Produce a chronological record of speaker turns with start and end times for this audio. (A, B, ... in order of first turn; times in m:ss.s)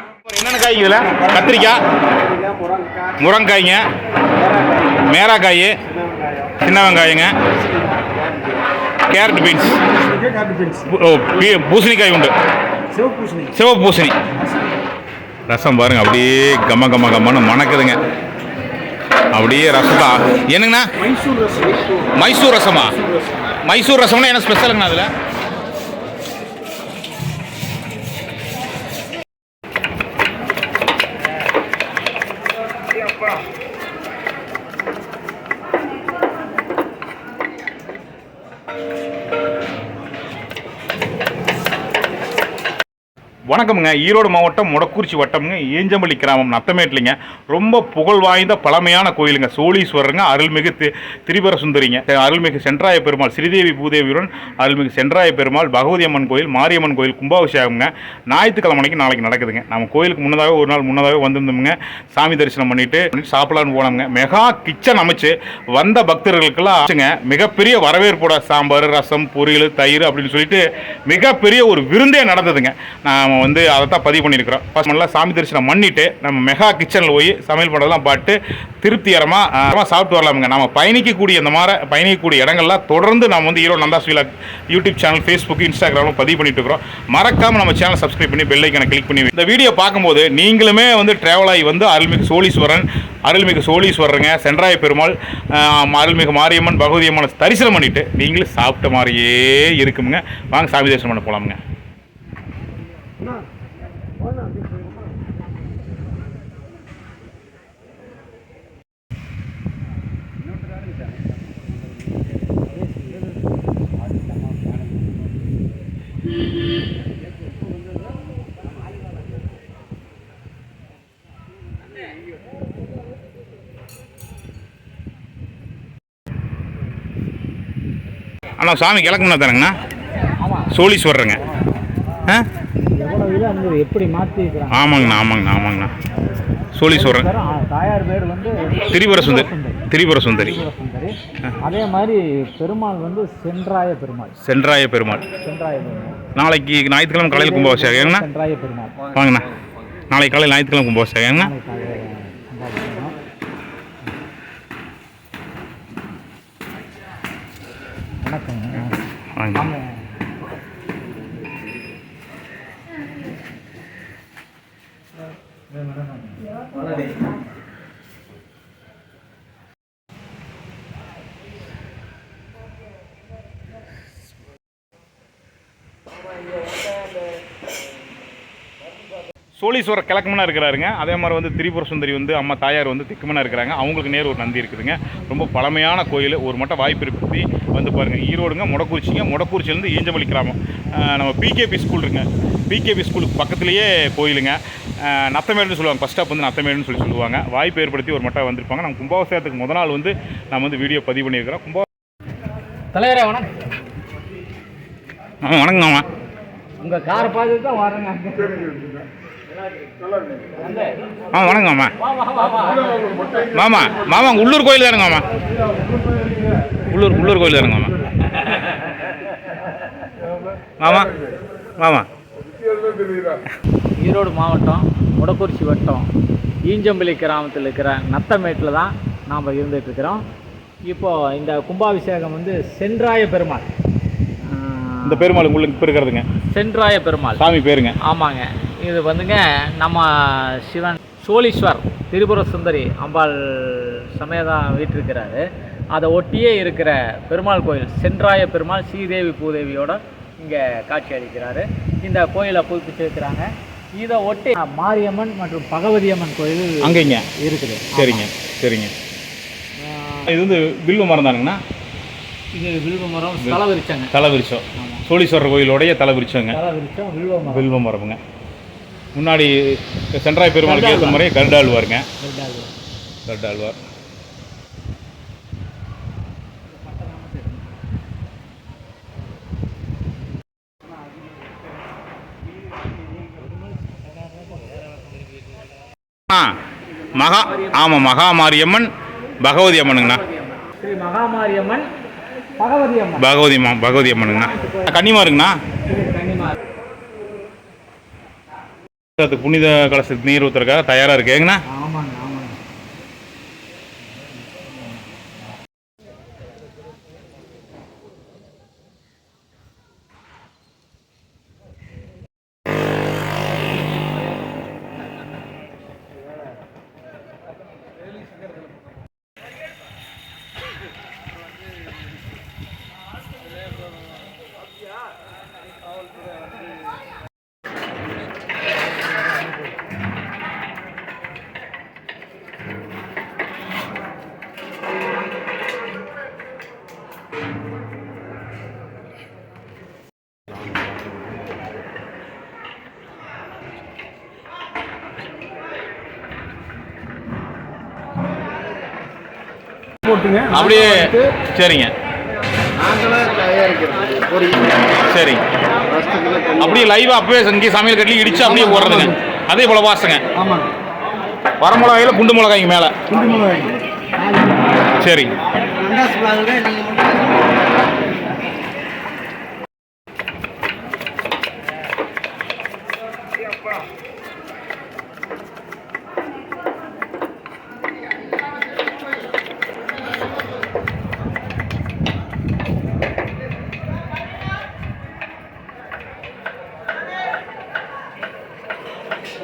0:00.2-0:01.8 A
0:02.1-0:03.2 B
0:03.2-0:03.8 A
0:04.5-0:04.9 B
0:04.9-0:05.7 A
0:06.0-0:06.5 B
0:06.6-0:07.3 A
0:09.1-0:09.8 A
0:10.2-0:10.7 B
0:10.8-0:12.3 A
0:13.0-0:13.3 B
0:13.4-0:14.2 A
0:15.5-0:18.0 A
0:19.3-0:20.9 A
0:22.1-0:23.0 A
0:23.6-0:25.1 A
0:43.5-1:41.6 A
2:08.6-2:09.7 A
2:10.4-2:10.7 C
2:10.7-2:11.4 A
2:12.9-2:15.2 C
2:14.7-2:15.9 A
2:16.7-2:17.3 A
2:16.9-2:24.4 C
2:18.9-2:20.6 A
2:24.4-2:25.2 A
2:25.4-2:26.2 C
2:26.3-2:28.2 A
2:27.3-2:29.1 C
2:29.1-2:29.4 A
2:30.1-2:31.5 A
2:31.4-2:33.2 C
2:38.2-2:39.0 C
2:39.4-2:39.6 A
2:39.5-2:40.0 C
2:45.7-2:46.4 C
2:59.6-3:21.8 A
3:22.9-3:23.6 C
3:25.4-3:26.0 A
3:26.8-3:29.0 C
3:30.6-3:31.0 C
3:31.3-3:31.9 A
3:32.0-3:33.4 C
3:33.5-3:35.2 A
3:36.8-3:38.0 A
3:40.8-3:41.1 A
3:41.8-3:42.1 A
3:44.0-3:46.1 C
3:46.6-3:50.2 C
3:50.9-3:53.7 C
3:54.4-3:55.5 C
3:55.0-3:56.2 A
3:56.5-3:57.4 C
3:57.4-3:58.0 A
3:58.0-4:05.4 C
4:05.9-4:18.2 C
4:16.8-4:17.3 A
4:17.9-4:18.9 A
4:19.8-4:20.3 C
4:20.2-4:21.6 A
4:22.5-4:24.1 C
4:24.1-4:26.6 A
4:24.8-4:25.0 C
4:26.5-4:27.7 C
4:27.5-4:28.2 A
4:29.1-4:29.5 A
4:30.1-4:32.0 A
4:30.6-4:31.2 C
4:32.2-4:32.7 C
4:33.3-4:33.8 A
4:46.3-4:46.6 A
4:47.1-4:48.9 A
4:49.4-4:50.2 A
4:50.0-4:51.9 C
4:52.6-4:53.2 C
4:53.2-4:55.6 A
4:54.2-4:55.0 C
4:55.8-4:56.6 C
4:59.2-5:01.6 A
5:01.7-5:02.6 C
5:50.0-5:51.3 B
5:50.5-5:51.9 A
5:52.8-5:54.2 B
5:55.0-5:55.4 A
5:56.0-5:56.4 B
5:56.6-6:00.2 A
5:58.4-5:59.1 B
6:00.4-6:00.7 B
6:01.6-6:02.9 A
6:03.1-6:03.7 B
6:05.0-6:05.3 A
6:05.8-6:07.0 B